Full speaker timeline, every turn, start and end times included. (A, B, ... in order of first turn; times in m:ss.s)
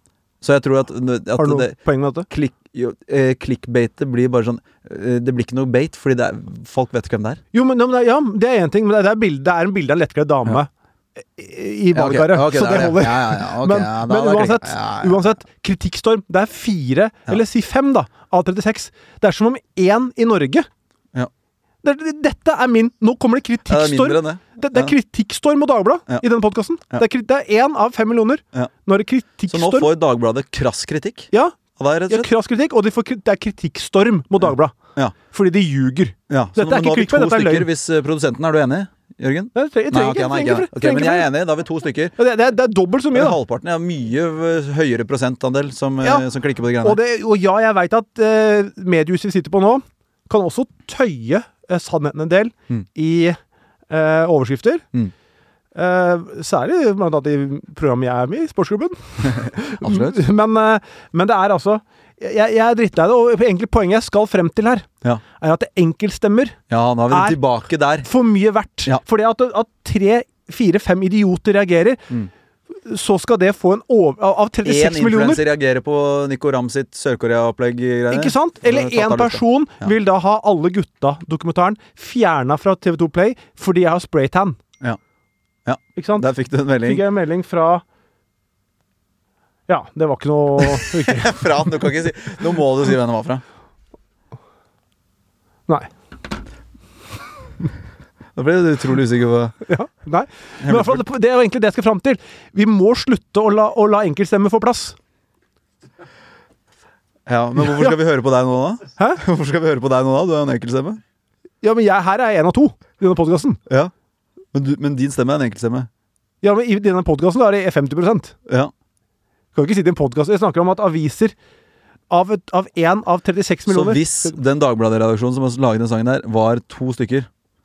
0:00.4-0:01.8 A
0:01.4-0:02.3 B
0:02.3-0:07.4 A
0:07.5-0:10.7 B
0:11.2-0:20.7 B
0:11.9-0:15.2 A
0:21.8-0:29.9 B
0:23.7-0:25.0 A
0:29.5-0:32.3 A
0:31.3-0:31.6 B
0:32.1-0:34.8 B
0:35.3-0:37.7 B
0:36.3-0:42.1 A
0:39.5-0:41.3 B
0:42.2-0:43.4 B
0:43.1-0:47.0 A
0:46.8-0:53.4 B
0:53.9-0:54.8 B
0:55.8-1:04.9 B
0:59.2-1:00.2 A
1:05.4-1:06.6 B
1:06.7-1:08.1 A
1:07.1-1:07.4 B
1:08.0-1:12.0 B
1:12.8-1:15.4 B
1:14.6-1:19.9 A
1:18.1-1:24.6 B
1:25.7-1:27.0 A
1:26.0-1:26.3 B
1:26.8-1:27.8 B
1:29.7-1:31.4 B
1:30.6-1:33.4 A
1:38.4-1:39.6 A
1:39.7-1:45.0 B
1:40.6-1:41.0 A
1:47.3-1:51.0 A
1:49.0-1:49.2 B
1:51.6-1:53.6 B
1:53.7-1:53.9 A
1:54.5-1:55.9 A
1:56.4-1:58.4 B
1:58.5-1:58.7 A
1:59.6-2:01.4 B
2:02.1-2:04.4 B
2:03.7-2:07.3 A